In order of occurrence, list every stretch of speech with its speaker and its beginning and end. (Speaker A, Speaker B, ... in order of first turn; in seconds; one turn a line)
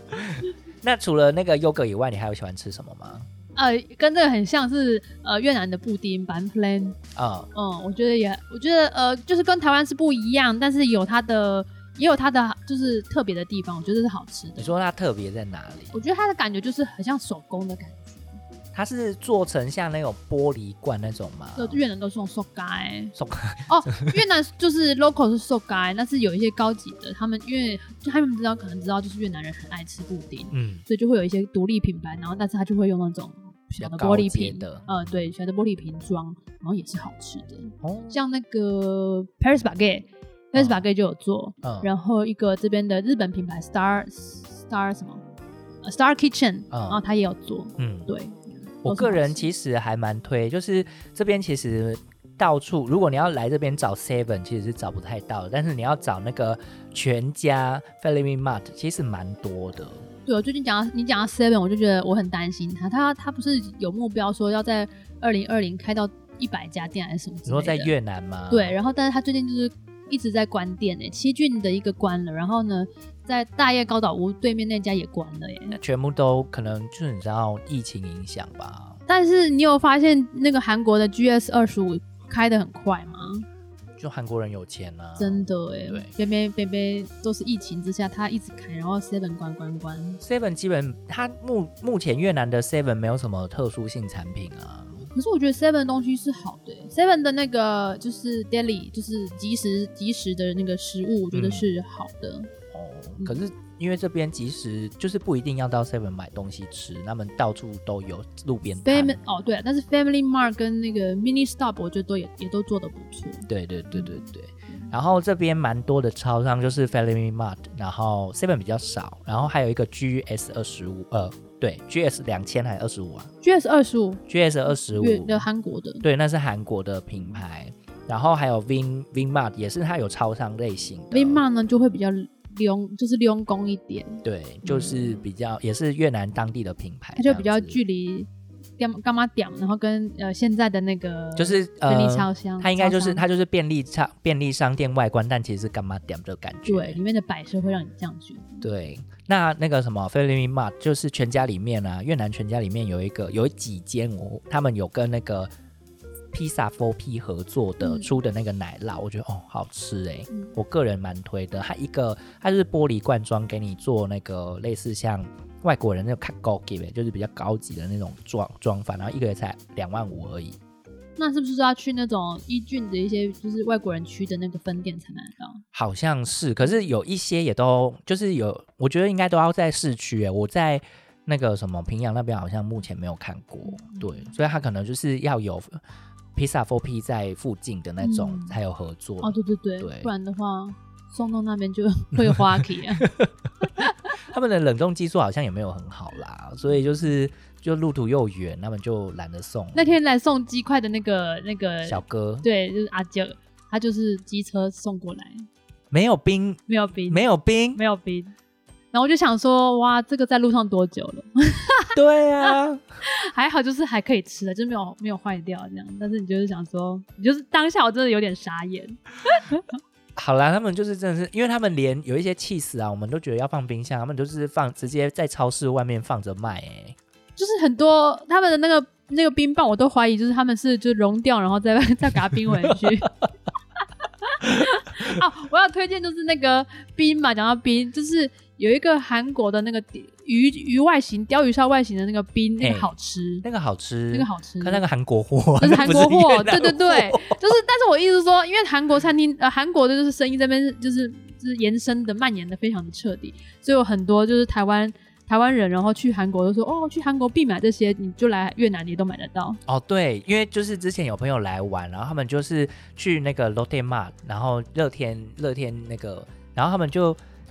Speaker A: 0.1-3.3
Speaker B: 3.5-7.0
Speaker A: 7.1-7.5
Speaker B: 7.5-14.7
Speaker A: 14.6-16.0
Speaker B: 15.9-18.4
Speaker A: 18.7-21.8
Speaker B: 21.6-23.1
Speaker A: 23.1-24.1
Speaker B: 23.7-45.2
Speaker A: 30.5-30.8
Speaker A: 33.8-34.9
Speaker A: 37.8-38.2
Speaker A: 40.5-40.8
Speaker A: 41.6-41.9
Speaker B: 45.8-49.4
Speaker A: 46.7-47.0
Speaker A: 47.8-48.1
Speaker A: 48.8-60.1
Speaker B: 60.2-67.9
Speaker A: 67.5-68.7
Speaker B: 68.5-75.8
Speaker A: 75.7-79.0
Speaker B: 79.1-83.5
Speaker A: 84.0-86.1
Speaker B: 85.2-90.2
Speaker A: 90.2-95.1
Speaker B: 95.1-102.5
Speaker A: 101.3-101.7
Speaker A: 102.7-109.2
Speaker B: 108.8-114.9
Speaker A: 113.5-123.3
Speaker B: 123.4-126.0
Speaker A: 124.3-125.5
Speaker A: 126.0-131.4
Speaker B: 131.1-135.2
Speaker A: 134.2-137.8
Speaker B: 137.2-143.2
Speaker A: 141.3-147.0
Speaker B: 146.7-148.7
Speaker A: 148.6-155.5
Speaker A: 156.3-170.6
Speaker B: 157.8-158.1
Speaker B: 171.2-175.6
Speaker A: 175.7-185.8
Speaker B: 183.6-184.3
Speaker A: 186.3-190.1
Speaker B: 188.0-188.6
Speaker B: 189.2-193.1
Speaker A: 192.2-199.9
Speaker B: 193.6-194.1
Speaker B: 196.7-196.9
Speaker B: 199.7-205.5
Speaker A: 201.8-202.5
Speaker A: 205.9-207.8
Speaker B: 206.7-208.3
Speaker B: 208.9-219.8
Speaker A: 211.9-213.0
Speaker A: 220.2-227.0
Speaker B: 227.3-233.1
Speaker A: 232.6-232.8
Speaker B: 234.0-243.4
Speaker A: 242.6-242.9
Speaker A: 243.4-247.4
Speaker B: 244.1-244.8
Speaker B: 245.6-259.6
Speaker A: 259.7-267.2